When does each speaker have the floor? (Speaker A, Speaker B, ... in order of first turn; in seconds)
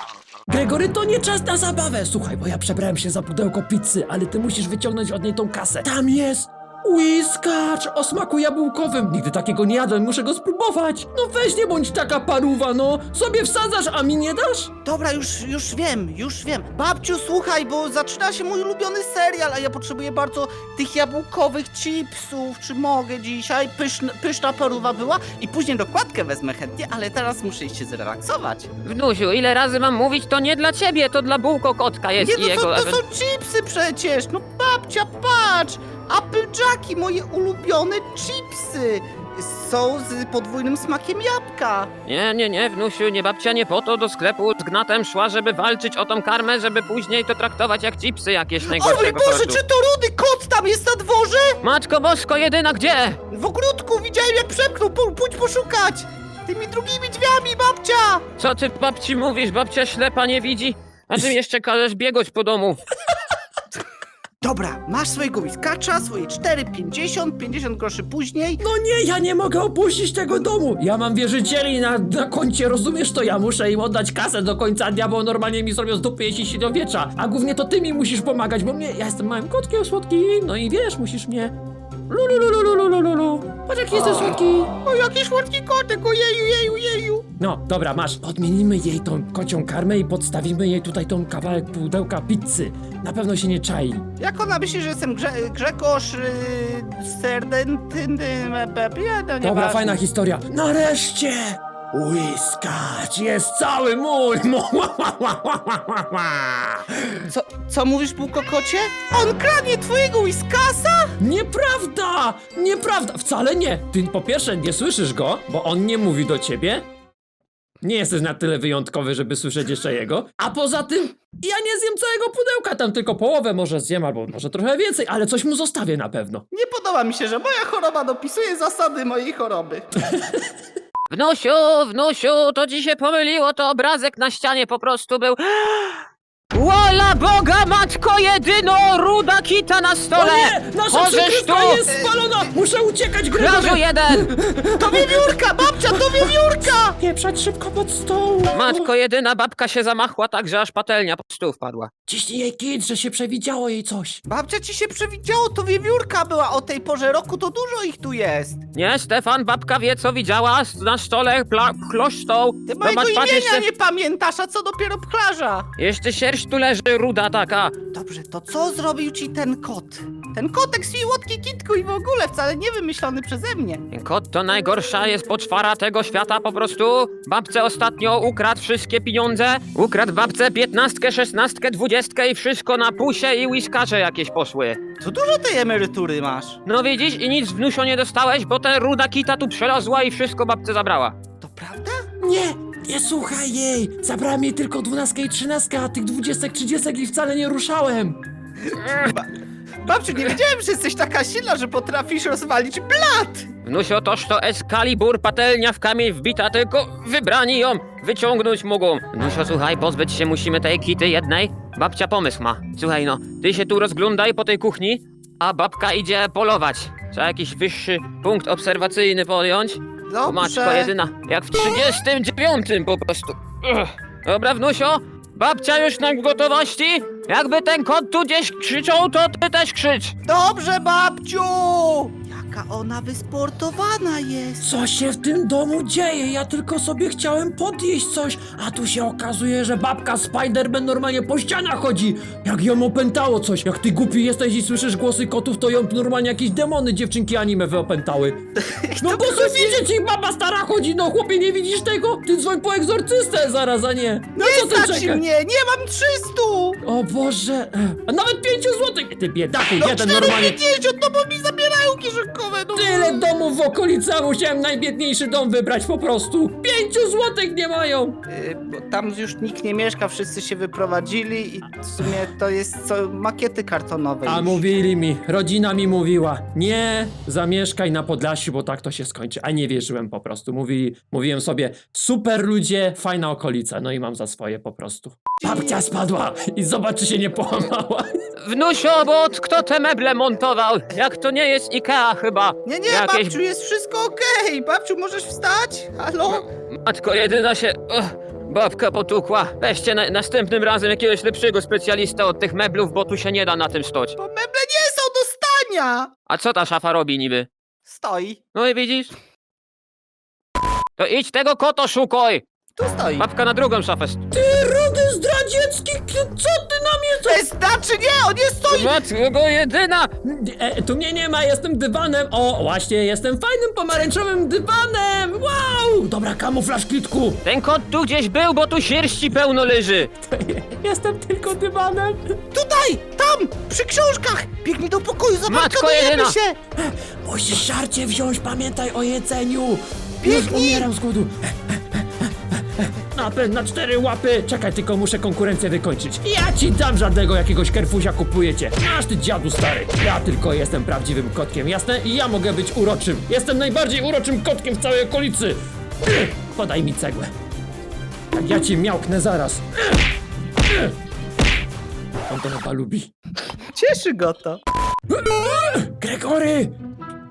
Speaker A: 0.5-14.7, 68.6-81.5, 82.1-84.7, 87.4-94.0, 99.4-107.2, 111.2-116.9, 117.8-126.5, 130.0-130.4, 140.2-145.4, 145.9-146.3, 147.0-148.9, 152.1-154.2, 192.2-198.2, 234.6-248.4, 249.0-255.2, 256.8-260.6, 262.8-268.2, 274.3-288.1, 314.3-317.4, 320.2-327.4, 330.2-332.4, 336.8-357.3, 358.3-360.0, 360.7-360.9, 362.3-363.1, 365.1-366.8
Speaker B: 14.8-28.7, 32.2-41.9, 48.6-51.6, 53.3-58.3, 64.4-68.6, 83.9-87.3, 94.2-100.0, 107.3-111.2, 126.5-129.9, 144.8-147.0, 154.3-158.7, 162.7-165.7, 167.9-173.8, 185.0-186.6, 191.4-192.1, 198.7-199.3, 199.8-203.5, 220.1-220.9, 230.3-234.7, 248.6-249.8, 254.3-256.8, 259.8-263.2, 268.3-274.6, 285.4-285.8, 292.7-296.5, 304.2-306.1, 307.9-308.4, 312.8-313.3, 317.2-319.0, 332.5-336.6, 340.2-340.9, 363.7-364.6
Speaker C: 28.8-33.0, 42.1-49.6, 51.6-53.2, 58.4-62.8, 131.1-141.8, 143.3-144.3, 148.5-151.9, 158.8-163.7, 165.8-167.8, 173.9-184.8, 186.7-191.2, 203.6-230.2, 288.4-293.4, 296.3-304.2, 306.3-307.5, 308.6-309.1, 311.0-312.4, 313.2-314.2, 318.7-320.1, 327.4-330.1, 335.5-336.4